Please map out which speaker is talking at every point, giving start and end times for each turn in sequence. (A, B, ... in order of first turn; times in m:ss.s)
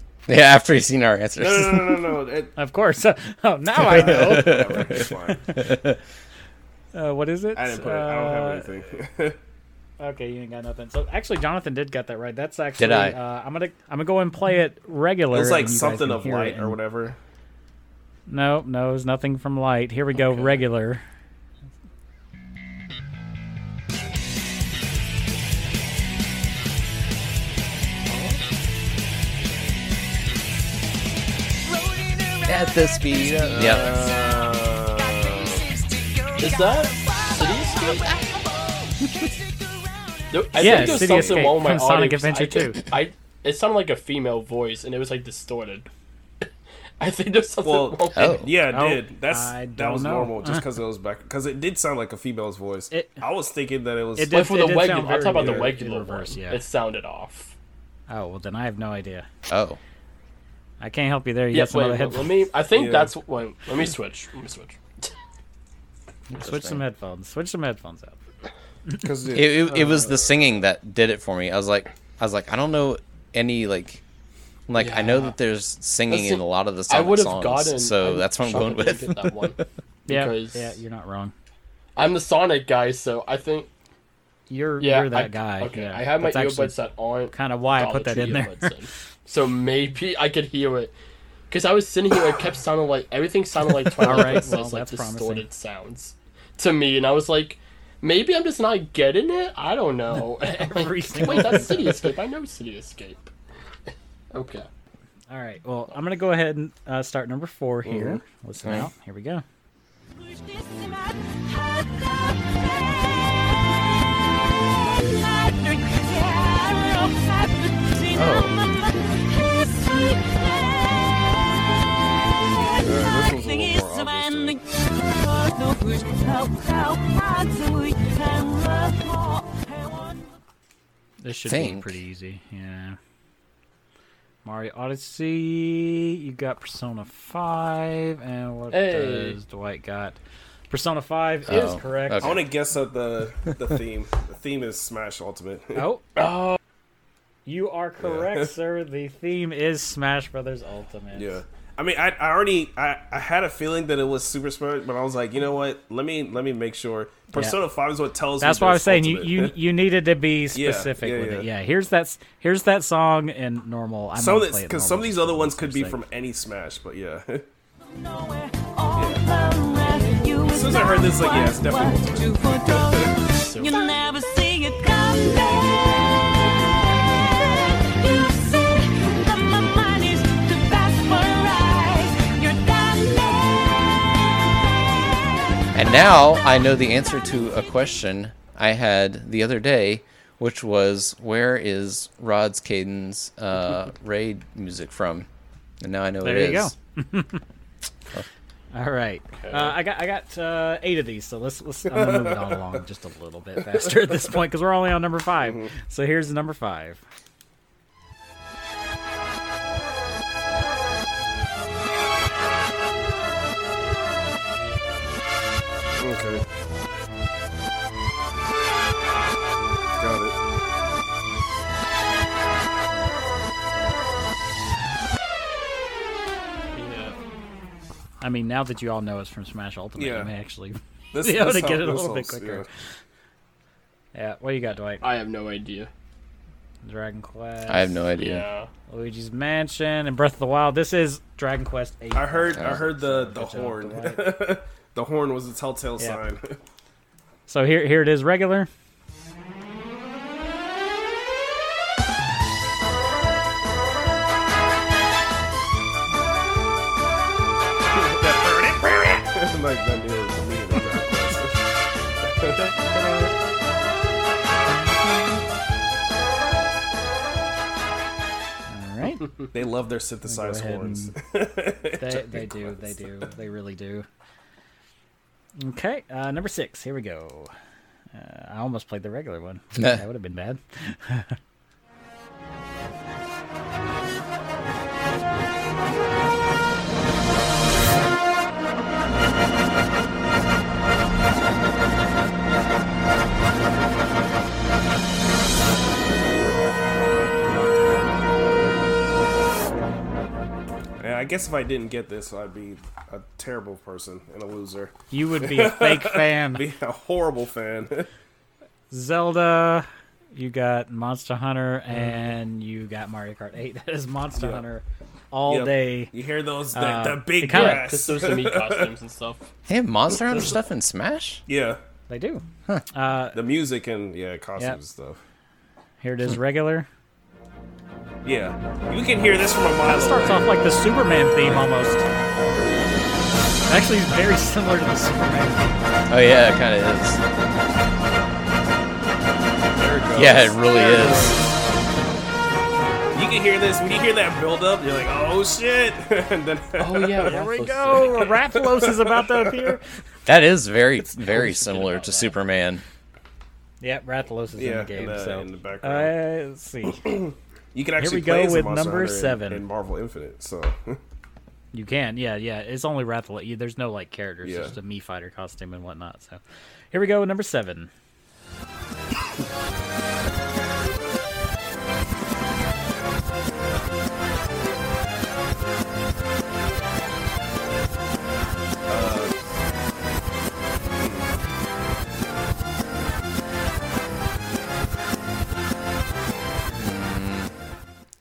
0:00.3-0:02.1 A
0:01.4-0:02.5 B
0:02.6-0:05.7 C
0:03.8-0:05.5 B
0:04.1-0:06.0 A
0:06.9-0:08.7 C
0:07.5-0:09.4 B
0:10.0-0:16.8 C
0:12.8-0:13.2 A
0:15.3-0:17.2 B
0:18.3-0:21.0 C
0:28.1-0:28.4 B
0:31.6-0:41.0 D
0:32.4-0:34.0 A
0:33.4-0:35.6 B
0:36.4-0:38.1 E
0:40.3-0:45.9 E
0:40.6-0:42.8 C
0:40.8-0:41.4 B
0:47.0-0:48.3 E
0:47.6-0:54.4 B
0:48.1-0:48.5 A
0:48.7-0:50.6 C
0:52.9-0:53.2 C
0:54.2-0:56.6 C
0:54.3-0:57.5 E
0:55.2-0:55.8 B
0:58.1-0:59.2 C
0:59.5-0:59.8 A
1:00.8-1:02.4 C
1:01.5-1:05.1 E
1:02.7-1:03.1 B
1:06.3-1:06.8 A
1:06.3-1:08.2 C
1:09.0-1:10.4 B
1:09.3-1:14.0 A
1:14.7-1:19.6 A
1:14.7-1:15.4 E
1:16.1-1:20.8 E
1:20.1-1:21.3 C
1:22.0-1:23.7 E
1:24.5-1:26.8 C
1:24.8-1:30.9 E
1:27.3-1:28.7 C
1:31.5-1:43.3 E
1:34.0-1:35.4 C
1:40.5-1:42.1 C
1:44.3-1:44.7 E
1:45.3-1:49.4 C
1:47.8-1:48.2 B
1:48.6-1:48.9 A
1:50.2-2:01.7 D
1:58.1-1:58.5 A
2:02.3-2:10.3 D
2:02.8-2:04.6 B
2:11.2-2:13.0 C
2:11.4-2:11.9 A
2:14.4-2:20.2 C
2:18.7-2:19.4 E
2:20.7-2:22.4 C
2:21.4-2:22.4 A
2:22.2-2:25.8 B
2:25.7-2:26.0 C
2:26.2-2:26.6 E
2:27.4-2:31.4 C
2:28.0-2:28.5 B
2:31.1-2:39.6 B
2:38.4-2:46.0 C
2:40.5-2:41.5 B
2:44.1-2:47.4 B
2:47.9-3:05.2 D
2:49.0-2:49.2 B
2:50.5-2:53.2 B
2:53.3-2:53.8 E
3:05.7-3:15.3 A
3:15.8-3:16.7 A
3:16.2-3:17.4 C
3:18.7-3:27.0 C
3:19.4-3:19.8 E
3:21.9-3:22.6 B
3:25.4-3:25.7 B
3:36.0-3:36.4 B
3:40.0-3:40.4 B
3:46.7-3:47.2 E
3:48.2-3:52.6 C
3:50.0-3:50.3 B
3:51.1-3:52.6 B
3:54.1-3:55.0 C
3:55.0-3:55.9 E
3:56.8-3:58.0 C
3:57.7-3:58.5 A
3:58.2-3:58.7 E
3:58.9-4:04.3 C
4:02.1-4:06.6 B
4:02.6-4:02.8 A
4:07.5-4:08.7 C
4:17.9-4:21.6 B
4:22.2-4:22.7 B
4:22.8-4:23.3 C
4:28.7-4:29.3 C
4:29.5-4:33.3 B
4:30.2-4:31.1 C
4:32.0-4:34.1 C
4:35.6-4:37.5 C
4:38.1-4:41.4 C
5:01.0-5:08.1 B
5:05.1-5:06.7 C
5:08.9-5:16.1 C
5:14.4-5:14.6 B
5:15.4-5:18.9 B
5:16.7-5:18.0 C
5:17.5-5:19.4 E
5:19.7-5:21.4 A
5:21.5-5:21.8 B
5:22.1-5:23.4 C
5:23.3-5:25.2 B
5:26.0-5:26.9 C
5:28.2-5:30.7 B
5:29.8-5:32.0 C
5:33.7-5:35.8 C
5:36.1-5:37.2 A
5:39.7-5:41.5 B
5:40.1-5:41.4 A
5:43.1-5:47.4 B
5:46.8-5:48.4 E
5:47.2-5:49.9 C
5:48.2-5:49.8 B
5:50.2-5:52.8 A
5:51.6-5:52.3 E
5:53.8-5:57.2 C
5:54.6-5:56.1 B
5:57.0-6:01.0 B
5:58.0-5:59.6 C
6:01.7-6:06.4 C
6:04.4-6:04.7 B
6:06.9-6:07.9 C
6:18.9-6:19.3 B
6:21.0-6:21.2 B
6:26.7-6:27.5 A